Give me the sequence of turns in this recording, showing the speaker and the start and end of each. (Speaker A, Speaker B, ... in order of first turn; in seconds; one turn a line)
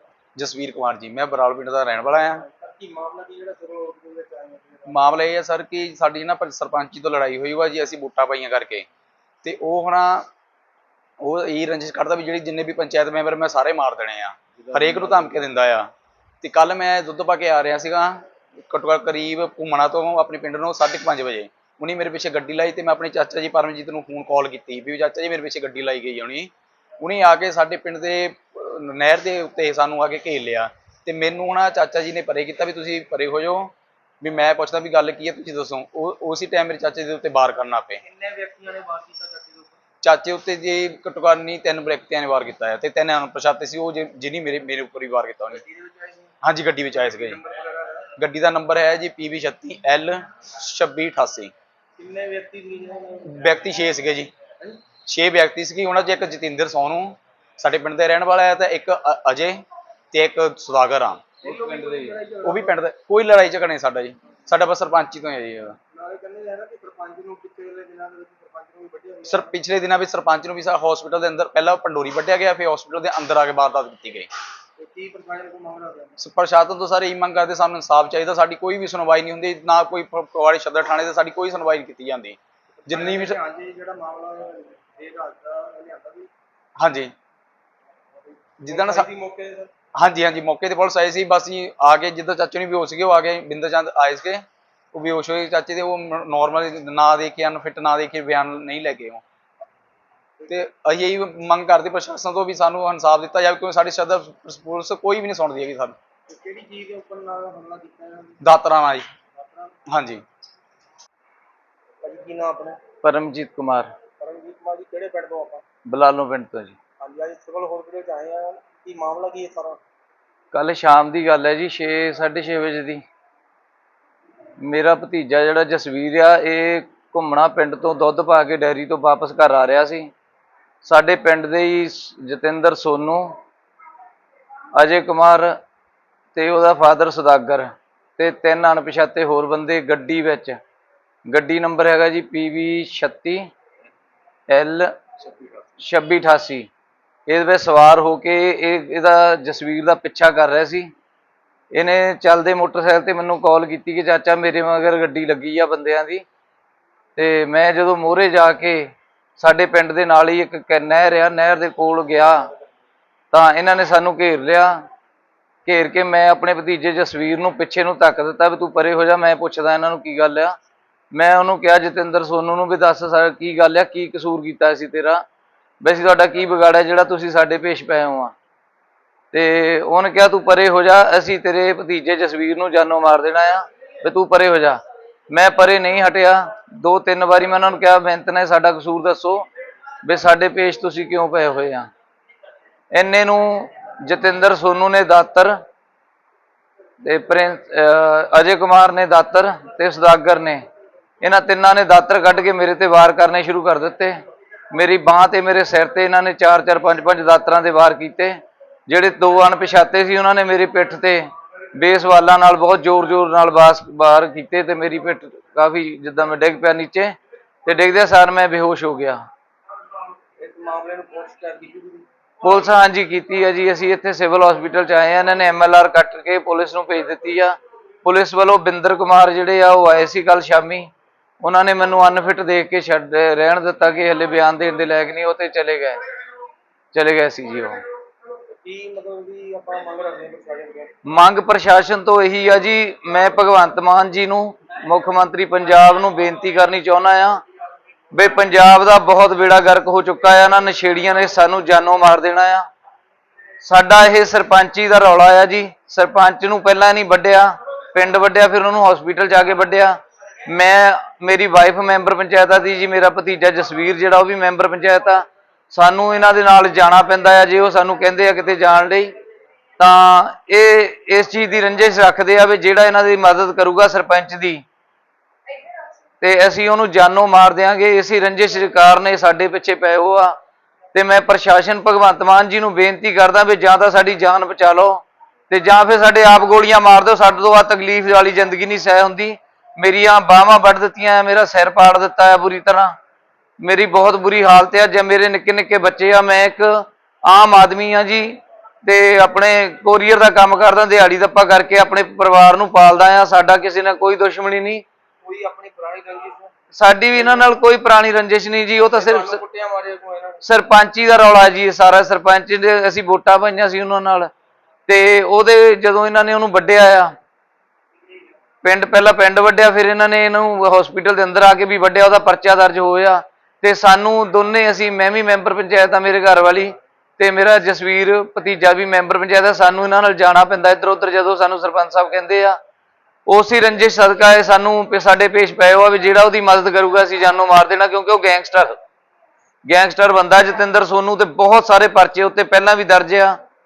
Speaker A: 0.4-2.5
Speaker B: 2.5-5.1
Speaker A: 4.9-8.9
Speaker A: 9.4-10.3
Speaker A: 11.2-15.9
Speaker A: 16.4-38.0
Speaker B: 38.0-39.8
Speaker A: 40.0-45.6
Speaker B: 45.5-46.4
Speaker A: 46.4-47.4
Speaker B: 47.1-48.1
Speaker A: 48.2-51.5
Speaker B: 52.0-53.7
Speaker A: 53.3-54.3
Speaker B: 54.6-54.9
Speaker A: 55.1-65.8
Speaker B: 61.4-62.8
Speaker B: 65.9-69.6
Speaker A: 69.3-74.3
Speaker B: 74.8-76.2
Speaker A: 76.2-83.4
Speaker B: 82.9-86.3
Speaker A: 86.8-87.1
Speaker A: 88.6-89.1
Speaker B: 88.7-89.7
Speaker A: 90.0-99.2
Speaker A: 100.5-106.0
Speaker B: 106.3-108.4
Speaker A: 108.4-109.1
Speaker B: 109.3-109.8
Speaker A: 109.9-110.2
Speaker B: 112.0-112.8
Speaker C: 113.0-113.9
Speaker B: 114.2-115.6
Speaker C: 115.9-116.8
Speaker B: 117.0-119.8
Speaker C: 120.5-123.0
Speaker C: 124.6-130.1
Speaker C: 130.8-133.3
Speaker C: 134.8-135.5
Speaker C: 136.3-140.6
Speaker C: 141.3-143.4
Speaker C: 144.5-145.3
Speaker C: 145.8-146.7
Speaker C: 147.3-150.9
Speaker C: 151.8-156.2
Speaker C: 157.2-158.8
Speaker C: 159.4-162.5
Speaker C: 163.3-164.7
Speaker C: 165.7-170.6
Speaker C: 171.1-175.2
Speaker C: 175.8-178.3
Speaker C: 179.3-184.8
Speaker C: 185.3-189.4
Speaker C: 190.0-191.9
Speaker C: 192.9-195.5
Speaker C: 197.0-200.6
Speaker C: 201.2-204.2
Speaker C: 204.7-208.4
Speaker C: 208.9-211.2
Speaker C: 211.8-217.1
Speaker C: 217.7-219.2
Speaker B: 220.4-222.1
Speaker C: 222.4-230.9
Speaker C: 231.4-236.0
Speaker C: 236.9-237.8
Speaker B: 238.6-240.9
Speaker C: 241.1-247.4
Speaker C: 248.1-252.7
Speaker C: 253.6-260.0
Speaker C: 260.5-269.1
Speaker C: 269.8-274.6
Speaker C: 276.2-280.3
Speaker C: 280.9-292.9
Speaker C: 293.6-304.8
Speaker B: 305.2-306.5
Speaker C: 306.8-309.4
Speaker B: 307.2-307.4
Speaker B: 308.9-310.4
Speaker C: 310.4-314.3
Speaker C: 314.9-317.1
Speaker C: 318.6-332.6
Speaker C: 333.3-338.8
Speaker C: 339.7-343.4